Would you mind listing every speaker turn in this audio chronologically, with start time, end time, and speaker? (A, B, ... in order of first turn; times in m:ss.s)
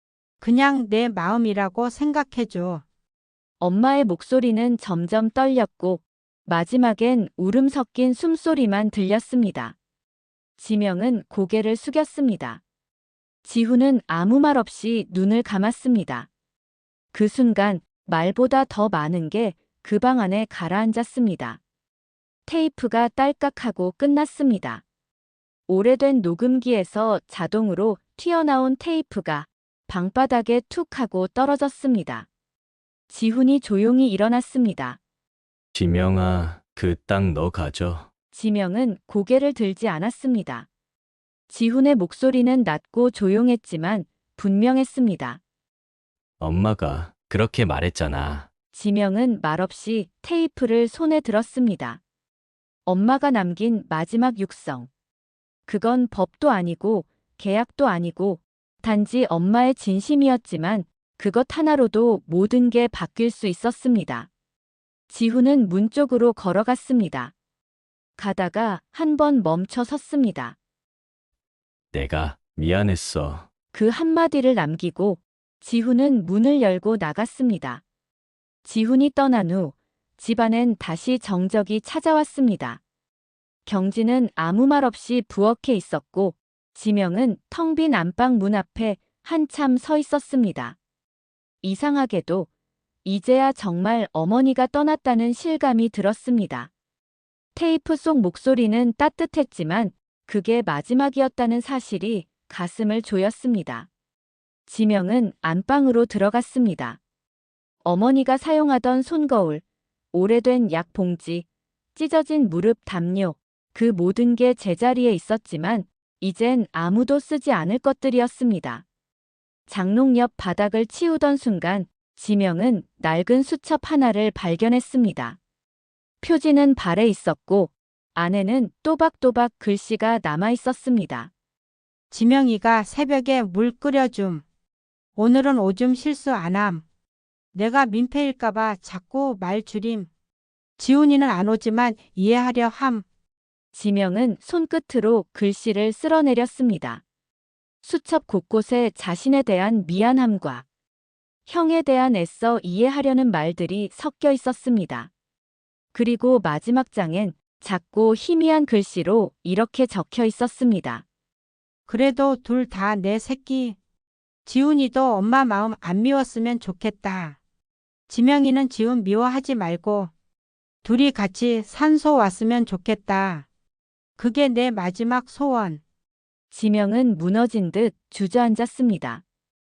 0:00.4-0:02.8 A
0:03.6-0:09.7 B
0:10.6-0:12.6 B
0:13.4-0:16.3 B
0:17.1-0:21.6 B
0:22.4-0:24.8 B
0:25.7-0:32.2 B
0:33.1-0:35.0 B
0:35.7-0:38.1 C
0:38.3-0:40.7 B
0:41.5-0:45.4 B
0:46.4-0:48.5 C
0:48.7-0:52.0 B
0:52.8-0:54.9 B
0:55.7-1:04.3 B
1:05.1-1:07.3 B
1:08.2-1:10.6 B
1:11.9-1:13.5 C
1:13.7-1:17.8 B
1:18.6-1:22.8 B
1:23.6-1:30.8 B
1:31.6-1:32.5 B
1:33.0-1:36.7 B
1:37.5-1:43.9 B
1:44.7-1:47.0 B
1:47.8-1:49.6 B
1:50.1-1:58.8 B
1:59.7-2:05.4 B
2:06.2-2:11.3 B
2:12.1-2:14.4 A
2:15.2-2:16.8 A
2:17.5-2:20.1 A
2:20.8-2:23.0 A
2:23.7-2:27.0 B
2:27.8-2:30.6 B
2:31.5-2:35.1 B
2:35.9-2:41.0 B
2:41.9-2:43.8 A
2:44.4-2:47.4 A
2:48.1-2:50.1 A
2:50.8-2:53.4 A
2:54.2-2:55.8 A
2:56.5-2:59.2 B